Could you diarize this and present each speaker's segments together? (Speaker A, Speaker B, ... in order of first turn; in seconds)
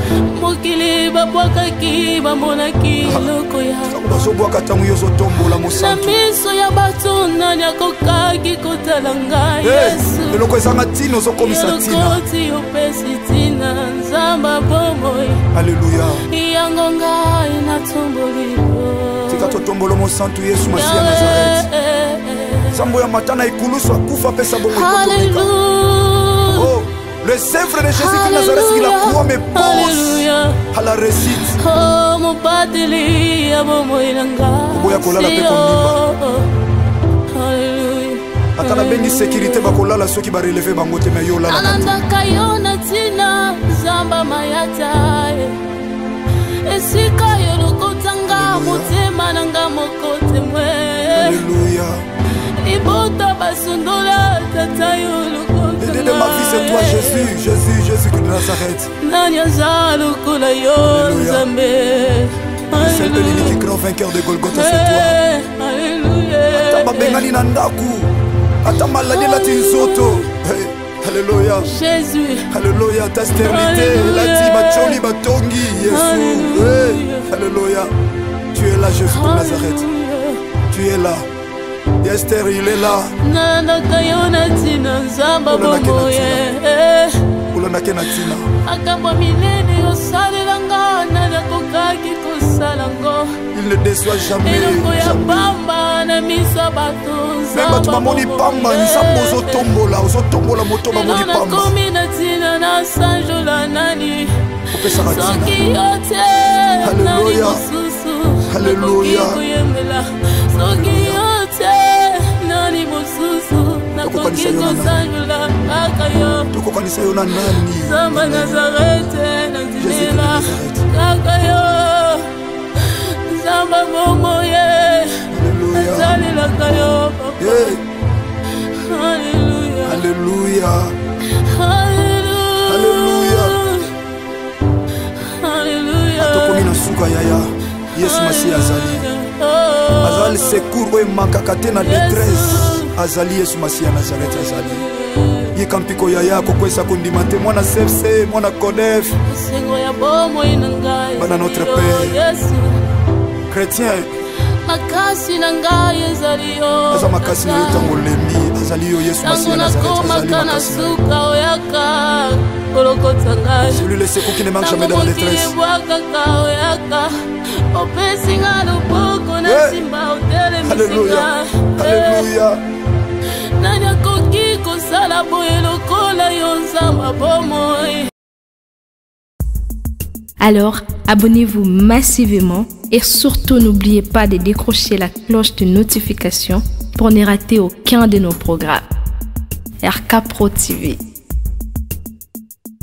Speaker A: 0.3-4.0, 5.5-10.5, 11.3-15.4, 16.3-19.6, 20.7-22.8, 24.6-26.7, 27.9-30.6, 31.3-36.5, 37.3-39.7, 41.4-45.6, 46.6-51.4, 52.6-57.3, 59.0-63.6, 64.4-67.3, 69.0-70.3, 71.6-72.5, 73.4-75.0, 75.7-77.3, 79.0-80.4, 83.2-87.2, 88.6-93.3, 94.4-99.7, 100.8-116.5, 117.8-127.8, 128.6-130.0, 131.3-133.9, 135.2-136.7, 137.9-140.7, 141.8-142.9, 144.3-145.5, 149.2-152.7, 154.6-157.9, 159.2-172.3, 173.3-178.1
Speaker B: 3.0-3.3, 3.8-6.2, 9.6-12.2, 15.5-16.2, 19.3-21.7, 22.7-25.5, 26.5-31.6, 34.7-36.0, 38.6-42.0, 48.3-48.9, 51.1-52.0, 55.8-58.9, 60.8-61.5, 62.7-65.2, 66.5-71.7, 72.5-77.9, 78.5-79.8, 80.7-81.2, 82.0-83.1, 85.5-86.4, 87.5-88.5, 93.5-95.5, 97.5-101.7, 104.7-105.6, 106.8-107.6, 108.5-109.4, 110.7-111.2, 114.0-115.0, 116.5-118.6, 119.8-120.9, 125.3-126.2, 127.4-127.8, 129.8-130.9, 132.7-133.6, 136.2-139.1, 140.0-144.8, 145.5-149.2, 151.2-152.2, 153.5-154.1, 156.9-161.0, 163.7-165.5, 169.4-169.8, 170.6-172.6
Speaker C: 180.4-188.8, 189.8-191.0